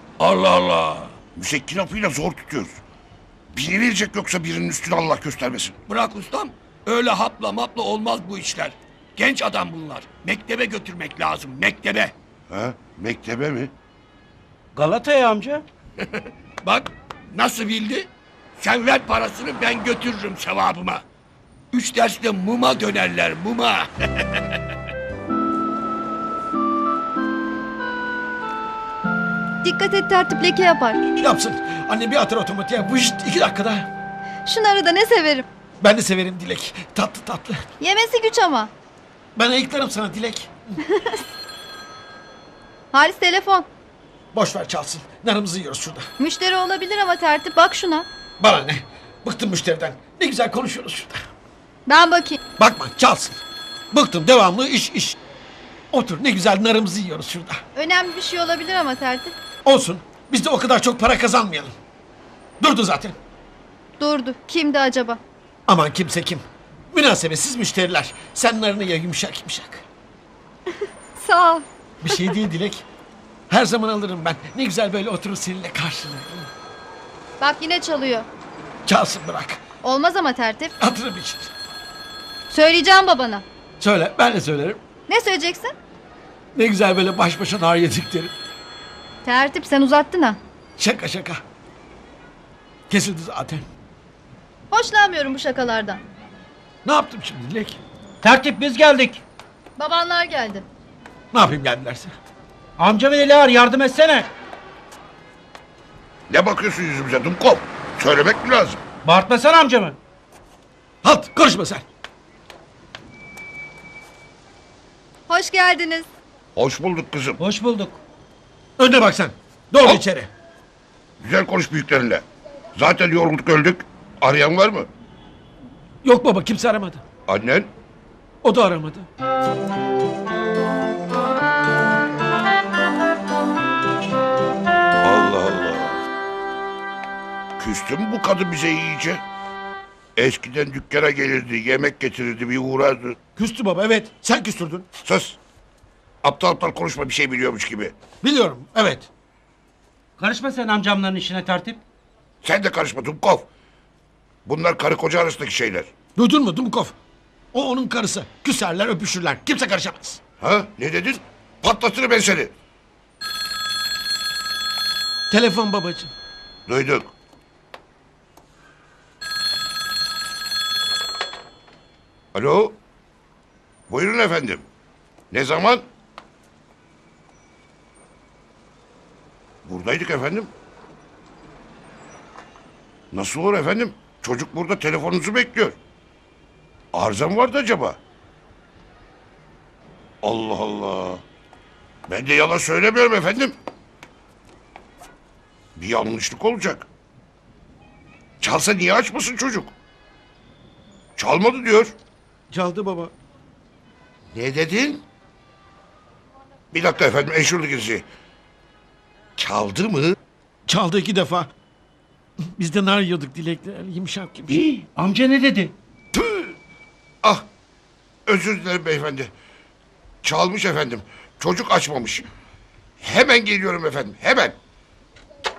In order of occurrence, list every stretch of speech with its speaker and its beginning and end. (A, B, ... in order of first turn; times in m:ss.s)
0:00.2-0:01.1 A
0:01.3-0:02.8 B
0:03.5-0:05.8 B
0:05.9-0:12.1 A
0:12.5-0:13.7 B
0:14.7-0:15.6 C
0:16.0-0:21.0 A
0:21.7-0:24.5 A
0:29.6-0:31.0 D
0:31.2-0:33.9 E
0:34.4-0:35.4 D
0:35.8-0:37.6 E
0:37.8-0:38.7 D
0:39.4-0:40.7 E
0:40.9-0:41.2 D
0:42.9-0:43.7 D
0:44.3-0:46.1 E
0:46.2-0:48.0 D
0:48.4-0:51.2 E
0:51.9-0:52.4 D
0:52.6-0:53.4 E
0:53.9-0:55.2 E
0:55.9-0:57.6 E
0:57.7-0:59.3 D
0:59.6-1:01.7 E
1:02.6-1:03.2 E
1:04.0-1:05.2 D
1:05.7-1:09.8 E
1:10.7-1:12.4 D
1:12.0-1:12.8 E
1:13.5-1:16.5 E
1:17.4-1:18.3 D
1:18.8-1:19.6 E
1:19.8-1:20.7 D
1:20.8-1:21.5 E
1:22.5-1:23.4 D
1:23.8-1:24.8 E
1:25.1-1:25.7 D
1:26.5-1:28.3 E
1:29.2-1:30.4 D
1:30.8-1:31.4 E
1:32.9-1:33.6 E
1:34.7-1:36.0 D
1:36.8-1:37.8 E
1:38.2-1:39.2 C
1:39.8-1:40.6 D
1:41.3-1:42.2 E
1:42.8-1:44.3 C
1:46.3-1:48.8 B
1:49.0-1:50.0 C
1:51.0-1:51.8 E
1:55.3-1:56.1 D
1:56.6-1:57.4 B
1:57.4-1:58.0 C
1:58.8-2:00.3 E
2:01.2-2:02.2 B
2:02.7-2:04.9 B
2:06.0-2:07.0 E
2:07.2-2:07.7 B
2:08.4-2:09.1 E
2:15.0-2:16.0 B
2:17.6-2:19.2 B
2:20.2-2:23.2 B
2:23.4-2:24.9 E
2:25.0-2:25.4 B
2:26.2-2:27.9 B
2:28.2-2:29.1 E
2:30.2-2:31.8 C
2:32.4-2:33.5 B
2:34.4-2:35.9 B
2:36.2-2:36.9 E
2:37.5-2:40.2 E
2:40.4-2:42.5 B
2:45.3-2:46.1 E
2:46.7-2:47.1 B
2:52.3-2:52.8 B
2:53.9-2:54.6 B
2:55.3-2:55.8 B
2:59.6-3:00.5 B
3:03.1-3:05.8 B
3:06.9-3:08.0 B
3:10.2-3:11.2 B
3:12.1-3:13.5 B
3:15.8-3:16.8 B
3:18.4-3:19.7 B
3:21.2-3:22.0 B
3:22.5-3:23.1 E
3:24.3-3:25.0 B
3:26.7-3:28.0 B
3:29.4-3:30.2 B
3:30.7-3:31.5 E
3:32.6-3:34.6 E
3:34.5-3:35.7 C
3:36.1-3:36.5 B
3:38.2-3:39.3 B
3:40.2-3:42.2 B
3:43.0-3:44.6 B